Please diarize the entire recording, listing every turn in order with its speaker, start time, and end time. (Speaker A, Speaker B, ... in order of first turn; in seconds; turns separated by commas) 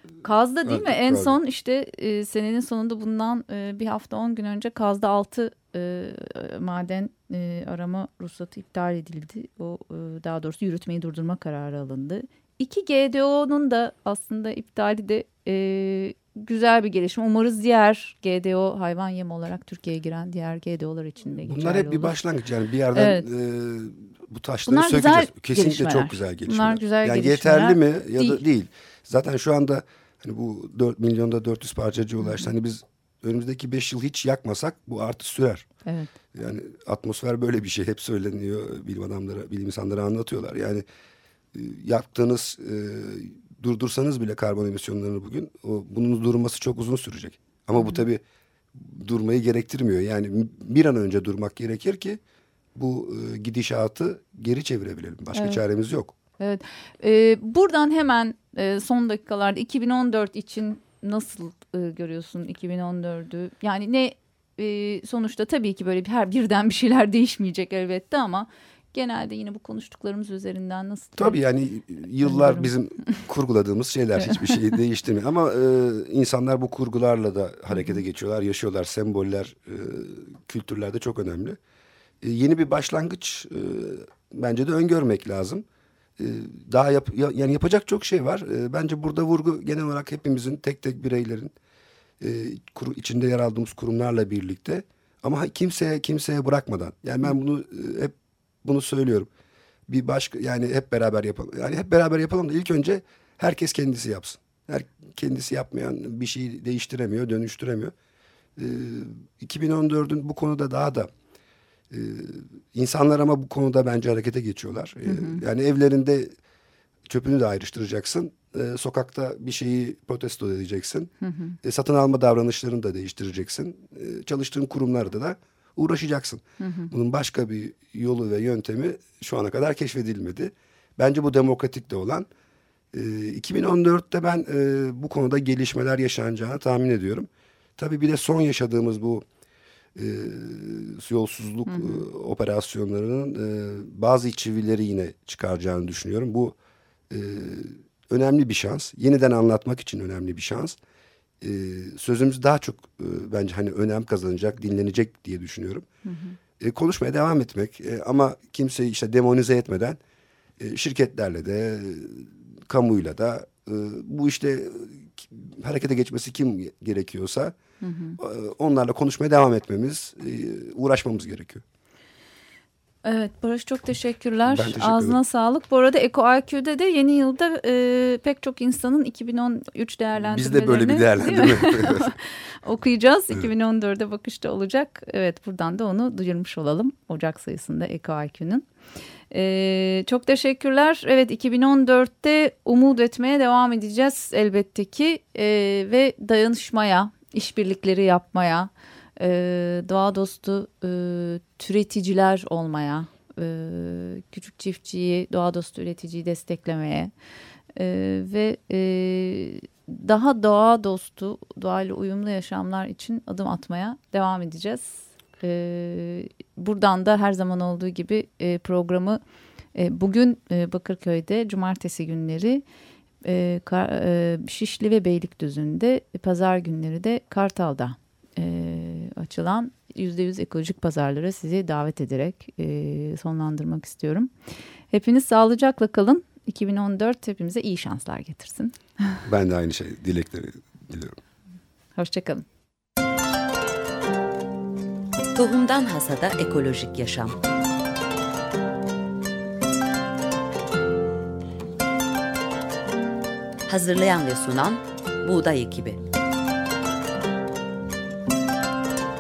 Speaker A: 0.2-22.1, Speaker B: 0.7-1.4, Speaker B: 21.4-35.7, Speaker A: 22.9-23.3, Speaker A: 24.7-28.4, Speaker A: 32.2-32.5, Speaker A: 35.9-36.1, Speaker B: 36.3-40.8, Speaker B: 41.5-48.2, Speaker A: 47.8-48.0, Speaker B: 48.7-52.2, Speaker B: 52.8-56.1, Speaker A: 55.3-55.6, Speaker A: 56.4-71.4, Speaker B: 71.2-81.6, Speaker A: 72.2-73.2, Speaker A: 77.7-78.0, Speaker B: 82.2-85.6, Speaker B: 86.2-91.5, Speaker B: 92.2-99.3, Speaker B: 99.9-107.9, Speaker B: 108.6-111.1, Speaker B: 111.9-116.3, Speaker A: 115.1-115.4, Speaker B: 117.1-121.1, Speaker A: 121.2-121.6, Speaker B: 121.6-132.3, Speaker A: 126.6-126.9, Speaker B: 132.9-139.2, Speaker B: 140.0-146.6, Speaker A: 141.7-142.1, Speaker B: 147.1-150.8, Speaker B: 151.4-155.9, Speaker A: 156.1-156.4, Speaker B: 156.6-160.0, Speaker B: 160.6-167.6, Speaker A: 167.8-168.2, Speaker B: 168.2-171.6, Speaker A: 173.0-188.7, Speaker B: 174.5-175.2, Speaker B: 180.2-182.2, Speaker A: 189.3-207.1, Speaker A: 207.8-219.2, Speaker A: 219.8-222.6, Speaker A: 223.2-234.3, Speaker A: 234.9-239.2, Speaker B: 239.3-241.2, Speaker A: 242.0-242.4, Speaker C: 245.3-247.4, Speaker C: 253.7-256.0